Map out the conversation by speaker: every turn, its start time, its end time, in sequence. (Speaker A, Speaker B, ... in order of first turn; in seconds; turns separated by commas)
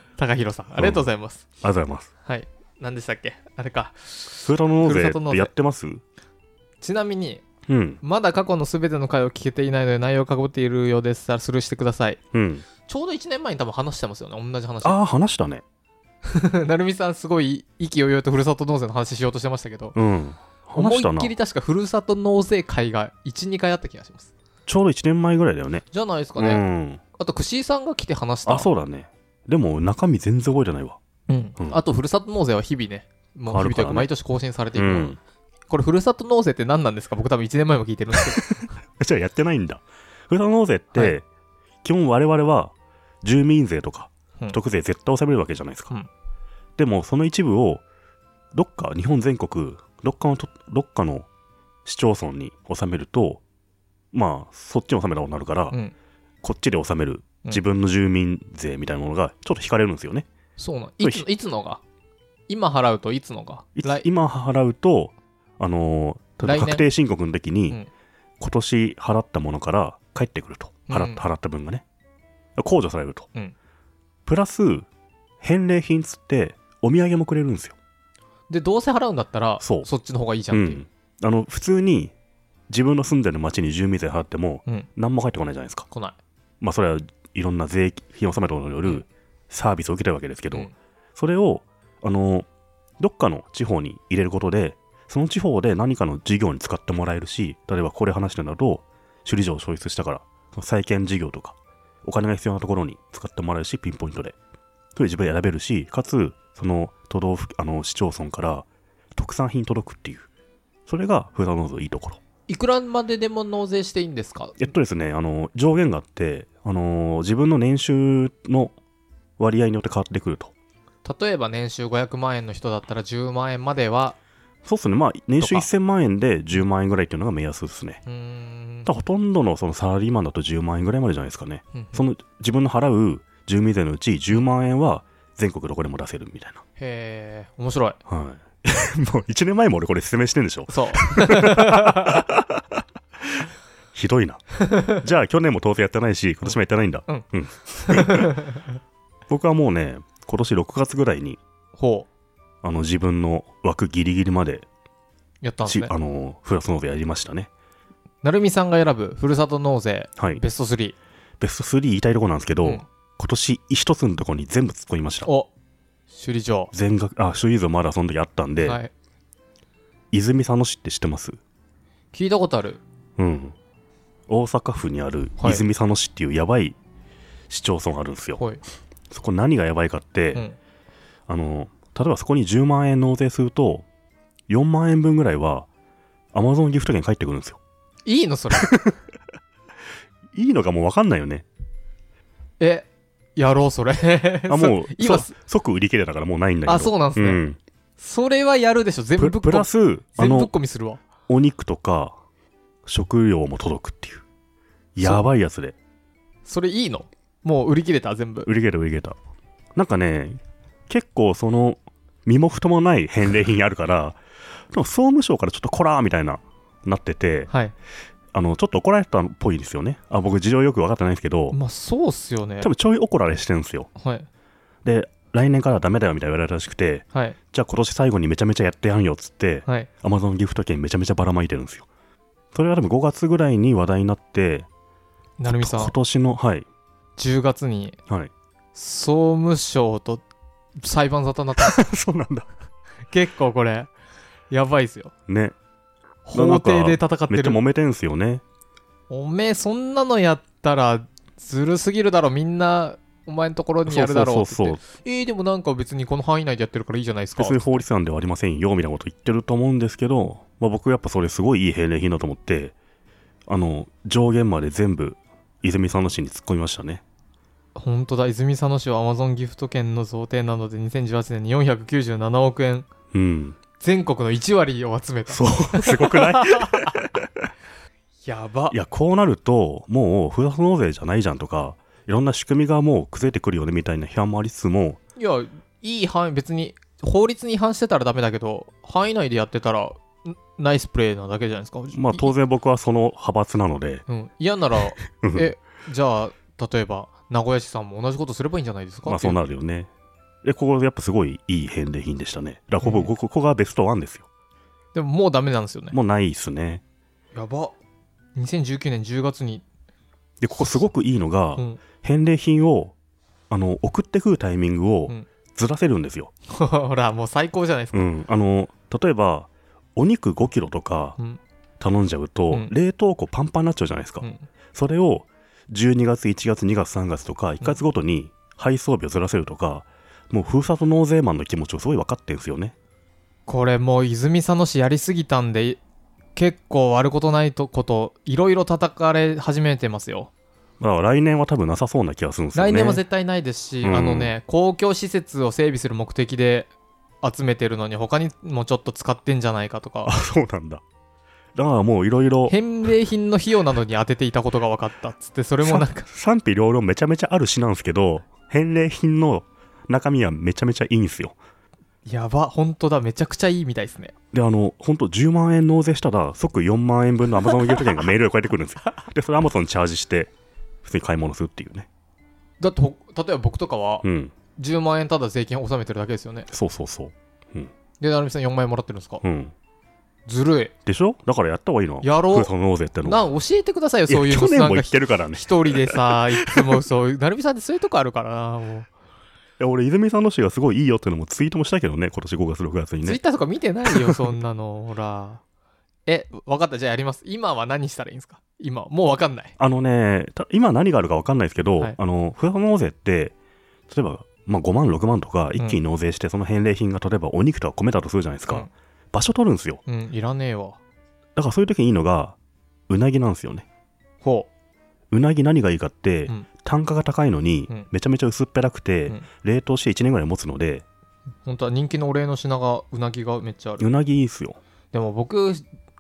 Speaker A: 0.2-1.4, Speaker B: 0.8-1.1, Speaker B: 1.6-2.1, Speaker A: 2.2-5.5, Speaker B: 4.4-6.0, Speaker A: 6.8-7.4, Speaker B: 7.7-8.0, Speaker A: 8.0-12.2, Speaker B: 12.3-12.7, Speaker A: 12.8-15.0, Speaker B: 14.8-15.6, Speaker A: 16.2-20.0, Speaker B: 19.9-21.3, Speaker A: 20.8-24.3, Speaker B: 24.7-27.0, Speaker A: 25.9-28.7, Speaker B: 28.5-31.0, Speaker A: 31.3-35.2, Speaker B: 33.5-34.1, Speaker B: 34.8-35.2, Speaker A: 35.7-38.5, Speaker B: 38.1-41.3, Speaker B: 41.8-45.9, Speaker B: 46.8-47.8, Speaker B: 48.5-51.3, Speaker B: 51.9-53.4, Speaker B: 54.1-55.8, Speaker B: 56.4-60.3, Speaker A: 60.6-61.8, Speaker B: 61.0-61.3, Speaker A: 62.5-64.1, Speaker B: 63.8-67.8, Speaker A: 66.4-66.9, Speaker B: 68.4-71.8, Speaker A: 70.9-71.2, Speaker B: 72.6-73.3, Speaker B: 74.3-74.9, Speaker B: 75.4-77.8, Speaker A: 78.5-80.8, Speaker B: 79.6-79.9, Speaker B: 80.5-82.1, Speaker B: 82.7-85.9, Speaker A: 85.9-86.2, Speaker B: 86.6-92.5, Speaker B: 93.0-104.4, Speaker B: 105.0-110.3, Speaker B: 110.9-112.2, Speaker A: 112.5-114.6, Speaker B: 114.6-118.8, Speaker B: 119.4-120.5, Speaker A: 121.0-124.2, Speaker B: 124.7-128.0, Speaker A: 125.4-125.7, Speaker A: 128.1-128.9, Speaker B: 128.9-136.6, Speaker A: 131.7-132.0, Speaker A: 136.8-138.0, Speaker B: 138.1-148.4, Speaker A: 140.7-142.2, Speaker A: 147.1-148.6, Speaker B: 149.3-151.4, Speaker A: 151.8-152.1, Speaker B: 152.6-154.7, Speaker A: 155.4-155.9, Speaker B: 155.7-157.5, Speaker A: 158.2-161.0, Speaker B: 161.4-165.3, Speaker A: 165.2-165.5, Speaker A: 166.1-166.7, Speaker B: 166.7-168.8, Speaker A: 168.6-168.9, Speaker B: 170.1-171.4, Speaker A: 172.1-172.8, Speaker B: 173.2-173.6, Speaker B: 174.3-176.8, Speaker B: 177.5-178.4, Speaker B: 179.1-180.4, Speaker B: 181.3-183.9, Speaker B: 184.5-185.7, Speaker B: 186.3-187.6, Speaker A: 188.1-188.8, Speaker B: 188.6-188.9, Speaker B: 190.3-191.5, Speaker A: 192.6-195.3, Speaker B: 194.5-197.6, Speaker A: 196.7-197.4, Speaker A: 198.0-201.0, Speaker B: 199.2-200.5, Speaker B: 201.3-202.2, Speaker B: 202.9-204.2, Speaker B: 204.9-205.8, Speaker A: 206.4-208.5, Speaker B: 208.4-209.2, Speaker B: 209.8-214.2, Speaker B: 214.7-217.5, Speaker B: 218.3-221.6, Speaker A: 221.5-222.7, Speaker B: 222.6-223.9, Speaker A: 224.0-224.3, Speaker B: 224.8-231.9, Speaker B: 232.5-234.7, Speaker A: 235.4-235.9, Speaker B: 235.5-236.7, Speaker A: 237.2-238.0, Speaker A: 238.8-240.2, Speaker A: 240.8-241.8, Speaker B: 241.6-242.5, Speaker A: 243.1-243.9, Speaker A: 244.5-245.1, Speaker B: 245.3-245.6, Speaker A: 246.2-247.6, Speaker B: 246.3-248.4, Speaker A: 249.1-257.8, Speaker B: 253.9-254.8, Speaker B: 257.4-262.8, Speaker B: 263.5-267.0, Speaker A: 267.8-272.9, Speaker B: 273.1-273.6, Speaker A: 273.8-277.0, Speaker B: 275.3-277.3, Speaker A: 278.2-278.8, Speaker B: 278.7-285.0, Speaker A: 285.2-292.3, Speaker B: 291.9-294.0, Speaker A: 294.1-299.4, Speaker B: 295.2-295.5, Speaker B: 299.1-299.9, Speaker B: 300.4-304.3, Speaker A: 302.8-303.1, Speaker A: 304.9-306.0, Speaker B: 305.9-306.8, Speaker A: 307.3-307.8, Speaker A: 308.4-309.6, Speaker B: 310.4-313.0, Speaker A: 311.6-311.8, Speaker B: 313.5-316.3, Speaker A: 316.5-318.1, Speaker B: 317.9-321.2, Speaker B: 321.8-332.8, Speaker A: 324.2-324.5, Speaker A: 333.5-335.8, Speaker A: 336.4-340.3, Speaker B: 340.8-343.0, Speaker A: 342.6-346.7, Speaker B: 343.8-344.4, Speaker A: 347.2-350.2, Speaker B: 350.1-350.8, Speaker B: 351.6-352.6, Speaker A: 352.5-356.1, Speaker B: 355.6-361.4, Speaker A: 362.1-364.1, Speaker B: 364.3-370.3, Speaker B: 370.8-371.9, Speaker A: 372.6-374.1, Speaker B: 374.0-374.3, Speaker A: 374.6-376.5, Speaker B: 376.5-377.7, Speaker A: 378.0-379.2, Speaker B: 379.2-379.5, Speaker A: 380.3-380.7, Speaker B: 380.9-383.2, Speaker A: 382.0-382.5, Speaker A: 383.0-388.9, Speaker B: 384.1-386.8, Speaker B: 389.6-393.2, Speaker A: 393.0-395.4, Speaker A: 396.1-399.5, Speaker B: 399.6-403.4, Speaker B: 403.9-409.8, Speaker A: 409.9-410.8, Speaker B: 411.4-412.4, Speaker B: 412.9-413.7, Speaker A: 414.2-414.5, Speaker B: 415.1-420.9, Speaker A: 421.4-423.9, Speaker B: 423.8-424.6, Speaker A: 424.9-425.7